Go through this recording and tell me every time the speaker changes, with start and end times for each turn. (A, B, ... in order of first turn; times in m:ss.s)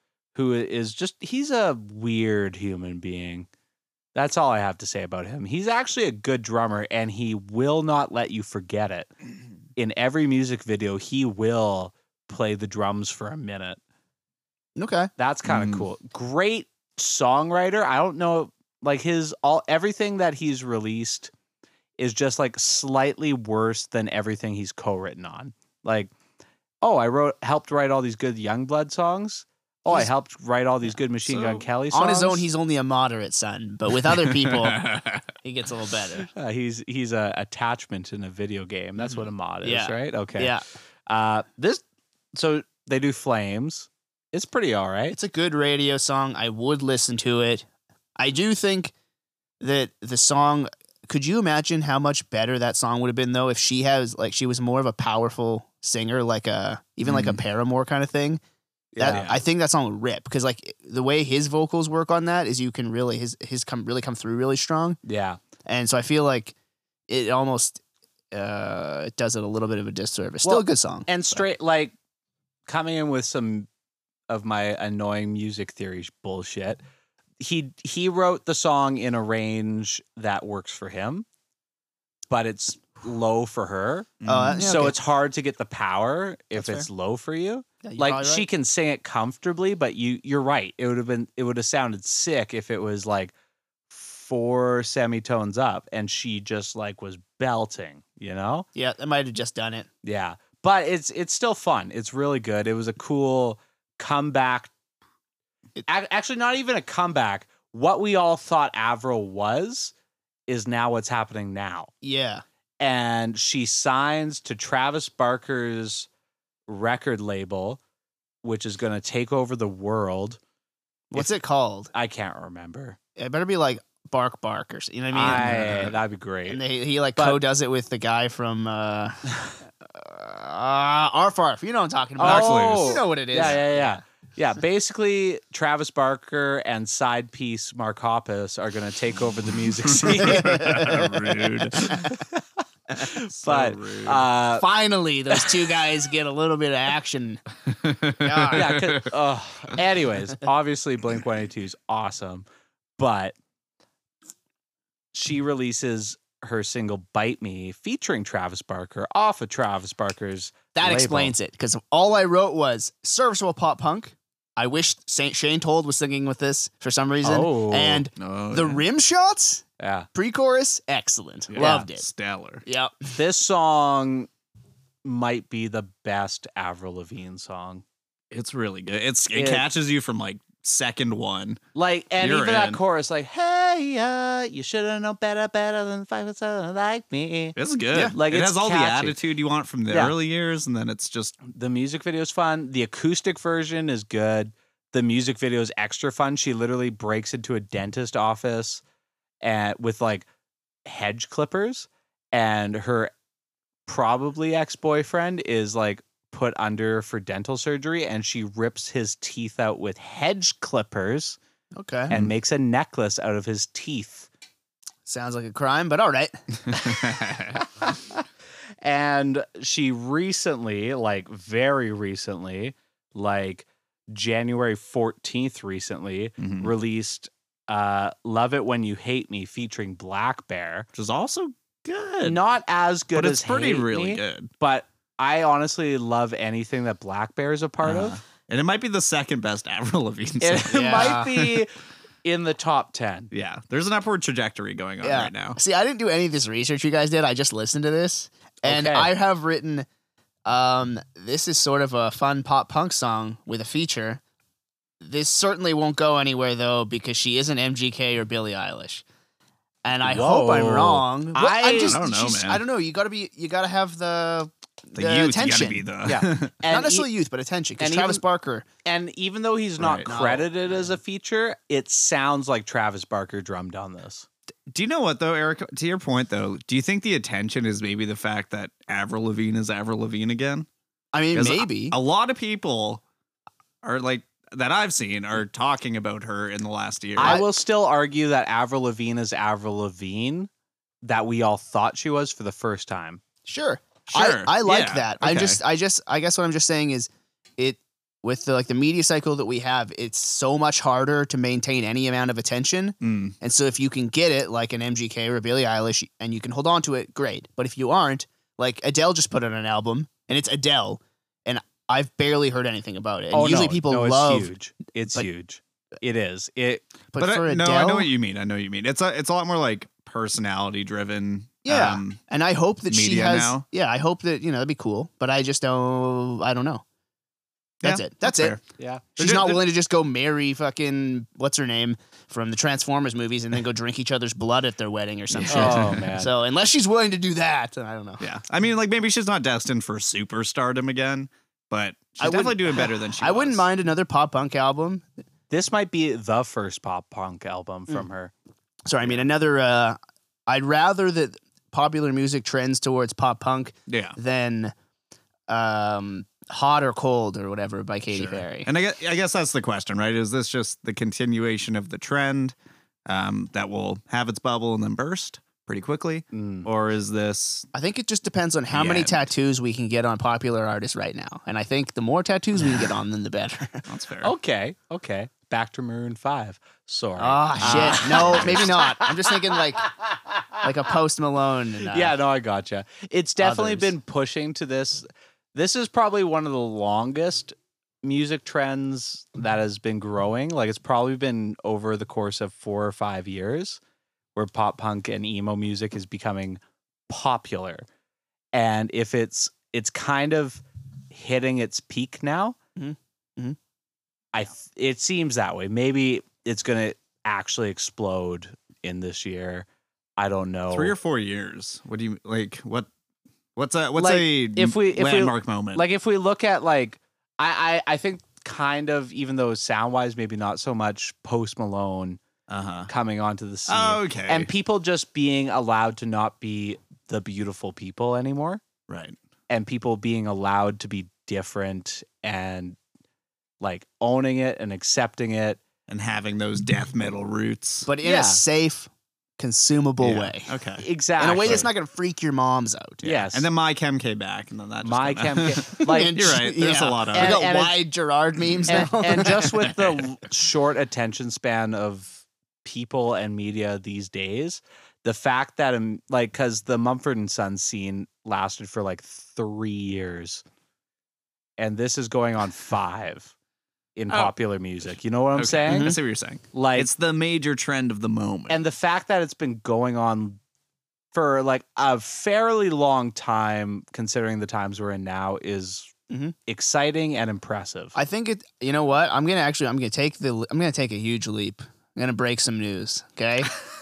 0:00.4-0:03.5 A
0:04.2-0:09.1 A
0:09.8-0:13.8 A
0:14.8-0:15.1 B
0:15.2-0:21.3 A
0:15.5-0:15.8 C
0:22.0-0:26.1 A
0:26.8-0:32.5 A
0:31.3-0:31.7 C
0:31.9-0:34.9 B
0:34.3-0:35.2 C
0:35.4-0:36.3 B
0:36.2-0:40.6 A
0:39.6-0:40.6 B
0:41.1-0:41.8 A
0:42.3-0:45.2 A
0:45.1-0:47.7 B
0:48.2-0:48.9 B
0:49.6-0:58.4 B
0:57.1-0:57.4 C
0:59.0-0:59.4 A
0:59.0-1:05.0 B
1:05.0-1:05.4 A
1:05.7-1:06.5 B
1:07.1-1:07.8 B
1:08.3-1:11.4 B
1:10.4-1:11.9 A
1:12.7-1:13.7 A
1:14.3-1:16.8 A
1:17.4-1:21.3 A
1:22.3-1:33.3 A
1:24.2-1:24.6 C
1:24.3-1:25.0 B
1:26.6-1:26.9 B
1:27.8-1:28.5 B
1:33.9-1:38.7 A
1:38.8-1:39.9 B
1:40.0-1:44.7 A
1:45.9-1:49.9 A
1:50.5-1:51.9 A
1:52.0-1:52.4 B
1:52.8-1:56.1 A
1:56.7-1:57.8 A
1:58.4-2:00.4 A
2:01.1-2:01.9 B
2:01.9-2:03.0 A
2:03.2-2:05.9 B
2:05.1-2:06.6 A
2:05.2-2:05.8 C
2:06.5-2:09.2 B
2:09.8-2:14.0 B
2:12.2-2:21.0 A
2:12.2-2:13.6 C
2:19.8-2:22.1 C
2:20.6-2:21.0 B
2:21.8-2:24.7 A
2:23.2-2:24.2 C
2:24.6-2:27.4 B
2:27.7-2:29.1 C
2:28.2-2:28.8 B
2:28.5-2:32.5 A
2:33.0-2:33.4 A
2:35.1-2:41.3 A
2:40.7-2:52.1 B
2:47.2-2:48.1 A
2:48.2-2:48.8 C
2:49.8-2:50.1 A
2:51.5-2:52.6 C
2:52.6-2:53.1 B
2:53.2-2:54.3 A
2:55.0-2:57.8 A
2:58.3-3:01.6 C
2:59.3-2:59.7 A
3:01.8-3:09.2 A
3:02.2-3:02.8 C
3:07.6-3:11.4 C
3:09.9-3:10.2 A
3:11.4-3:18.8 A
3:19.4-3:20.3 A
3:20.9-3:23.1 A
3:23.9-3:31.4 A
3:31.8-3:32.1 B
3:32.1-3:34.3 A
3:35.1-3:36.4 B
3:36.8-3:37.6 C
3:37.6-3:38.2 A
3:38.8-3:50.9 A
3:46.4-3:46.7 C
3:50.9-3:52.4 C
3:52.2-3:58.2 A
3:53.1-3:54.5 C
3:57.8-4:01.6 C
4:00.4-4:01.7 A
4:00.7-4:01.3 B
4:02.2-4:03.3 A
4:03.3-4:05.6 C
4:05.0-4:09.9 B
4:08.6-4:09.1 A
4:10.5-4:14.2 B
4:15.0-4:19.0 B
4:19.8-4:25.9 B
4:20.0-4:22.0 A
4:21.8-4:22.6 C
4:25.0-4:26.6 C
4:26.0-4:27.1 A
4:26.7-4:28.6 B
4:27.8-4:28.2 A
4:28.8-4:34.3 A
4:29.8-4:30.1 C
4:30.0-4:30.9 B
4:34.7-4:40.7 C
4:41.1-4:42.0 B
4:41.3-4:43.0 C
4:43.8-4:47.4 C
4:47.2-4:50.5 A
4:47.2-4:47.5 B
4:51.0-4:53.2 A
4:53.5-5:14.5 B
4:54.1-4:55.6 C
5:03.0-5:03.4 C
5:13.3-5:16.9 A
5:17.1-5:18.1 B
5:17.2-5:22.2 C
5:21.6-5:26.8 B
5:22.9-5:23.6 C
5:27.8-5:28.6 C
5:27.8-5:28.6 B
5:28.8-5:29.1 A
5:29.2-5:38.2 B
5:29.2-5:29.6 C
5:35.3-5:36.1 C
5:35.5-5:36.3 A
5:38.2-5:43.7 C
5:42.2-5:45.1 B
5:45.5-5:48.3 A
5:48.9-5:54.7 B
5:53.9-5:54.2 C
5:55.5-5:58.7 B
5:58.1-6:02.5 C
6:03.1-6:07.7 C
6:06.3-6:06.7 A
6:07.7-6:13.9 B
6:08.7-6:09.3 C
6:13.9-6:14.3 C
6:14.2-6:20.7 A
6:17.2-6:19.8 B
6:17.6-6:18.6 C
6:20.6-6:22.1 B
6:21.9-6:33.8 A
6:23.4-6:23.9 B
6:34.4-6:37.9 A
6:38.5-6:42.6 A
6:42.8-6:43.6 B
6:44.3-6:49.7 A
6:50.2-6:51.0 A
6:50.7-6:52.9 C
6:53.6-6:55.9 C
6:54.0-7:02.2 A
7:02.5-7:02.9 C
7:02.9-7:08.6 A
7:03.7-7:04.5 C
7:08.9-7:09.2 C
7:09.5-7:12.8 A
7:13.6-7:15.6 A
7:15.9-7:17.9 C
7:17.9-7:20.6 B
7:18.0-7:18.4 A
7:20.0-7:21.6 C
7:20.8-7:21.7 A
7:21.2-7:23.0 B
7:23.0-7:27.5 C
7:23.0-7:23.5 A
7:24.8-7:26.3 A
7:25.7-7:29.6 B
7:27.1-7:27.8 A
7:28.7-7:40.4 A
7:29.6-7:30.0 C
7:41.6-7:43.3 A
7:44.0-7:46.0 A
7:44.1-7:44.4 C
7:45.4-7:48.6 C
7:45.7-7:46.0 B
7:46.5-7:46.9 A
7:48.5-7:50.4 A
7:51.1-7:55.9 A
7:56.1-7:56.4 B
7:56.5-7:58.0 A
7:58.0-8:03.5 B